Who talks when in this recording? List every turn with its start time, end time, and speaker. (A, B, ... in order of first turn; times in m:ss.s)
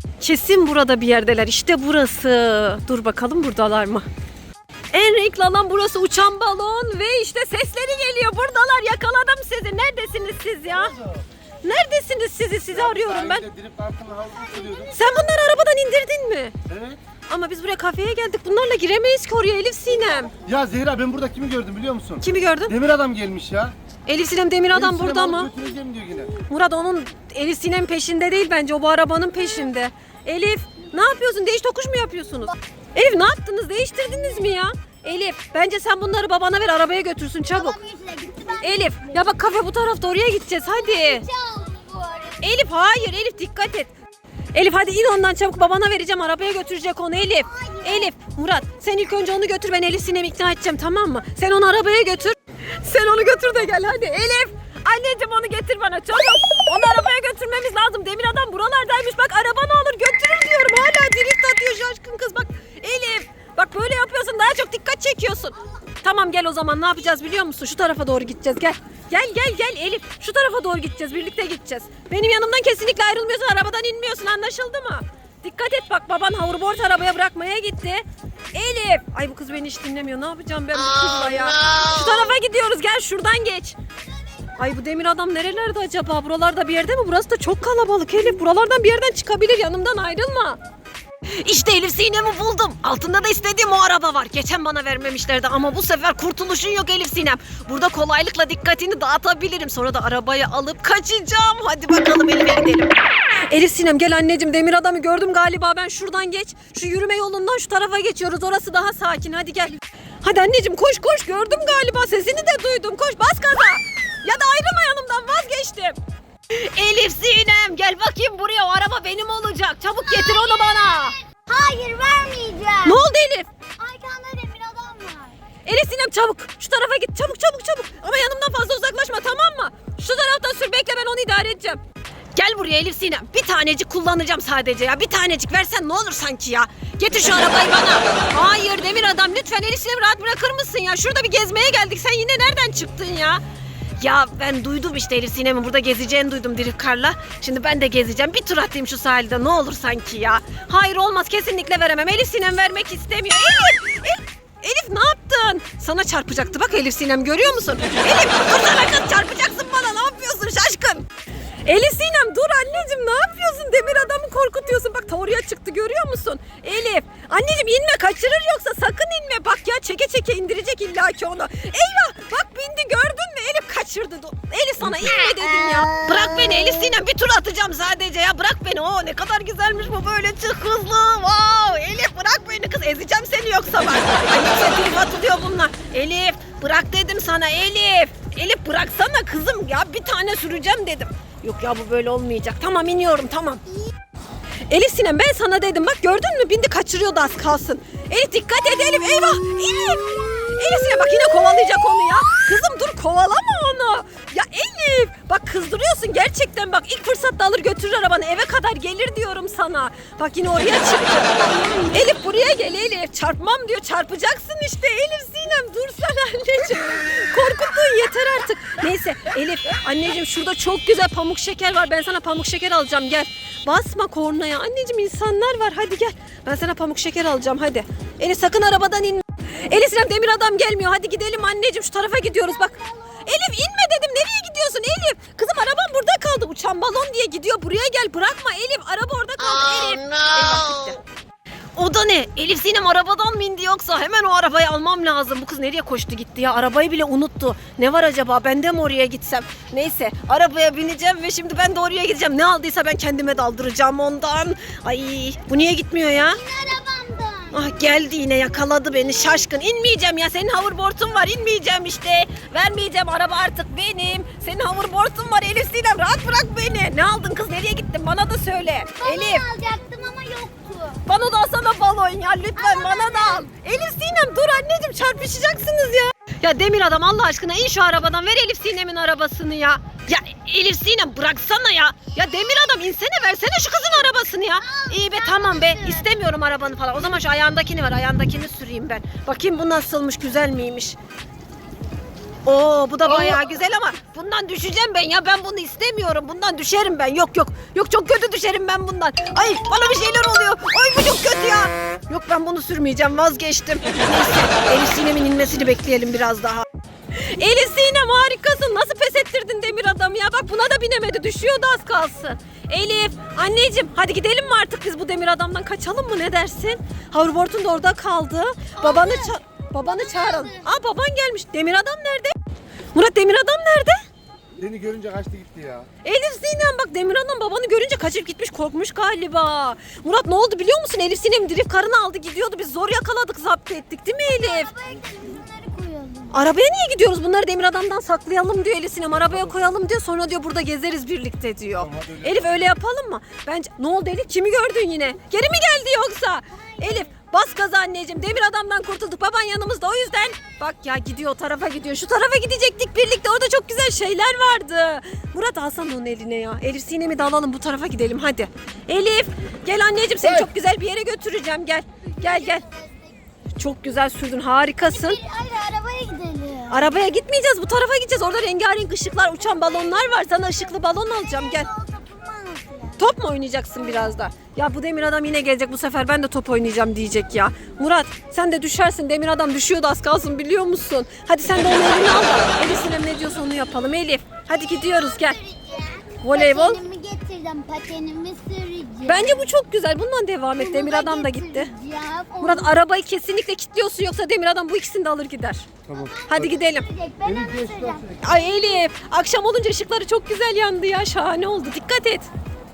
0:00.2-0:04.1 A
0:04.9-0:11.0 A
0:11.6-0:13.4 A
0:12.8-0:14.9 B
0:14.2-0:15.5 C
0:14.9-0:16.5 A
0:16.7-0:17.0 B
0:17.3-0:20.3 A
0:20.4-0:23.8 B
0:22.2-0:22.8 A
0:24.0-0:25.5 A
0:24.7-0:26.3 B
0:26.5-0:37.8 A
0:37.5-0:39.4 C
0:38.6-0:41.2 A
0:40.6-0:42.4 C
0:42.4-0:43.9 A
0:44.5-1:23.8 A
0:47.4-0:48.1 C
1:24.6-1:30.6 A
1:31.4-1:42.9 A
1:43.5-1:56.0 A
1:56.5-2:01.2 A
2:00.0-2:03.0 C
2:02.8-2:03.5 A
2:03.8-2:05.4 C
2:05.6-2:11.8 A
2:12.3-2:23.4 A
2:24.0-2:41.0 A
2:41.6-3:13.6 A
3:14.7-4:01.0 A
3:52.6-3:53.2 C
4:01.8-4:16.4 A
4:16.2-4:17.7 C
4:17.5-4:29.4 A
4:29.0-4:31.0 C
4:31.0-4:51.0 A
4:32.6-4:33.5 C
4:44.6-4:46.1 C
4:52.4-5:22.3 A
5:18.8-5:20.6 C
5:22.9-5:24.0 A
5:24.6-5:25.9 B
5:26.0-5:34.7 A
5:34.2-5:36.5 C
5:36.3-6:02.6 A
5:42.0-5:42.2 B
5:46.7-5:47.0 C
6:02.2-6:03.2 C
6:03.6-6:05.2 A
6:04.9-6:06.9 C
6:06.7-6:11.7 A
6:11.0-6:13.1 C
6:13.0-6:25.4 A
6:24.6-6:29.5 C
6:26.2-6:26.8 A
6:29.0-6:31.7 A
6:30.6-6:32.7 C
6:32.4-6:35.7 A
6:35.9-6:38.6 C
6:36.3-6:36.8 A
6:38.2-6:42.3 A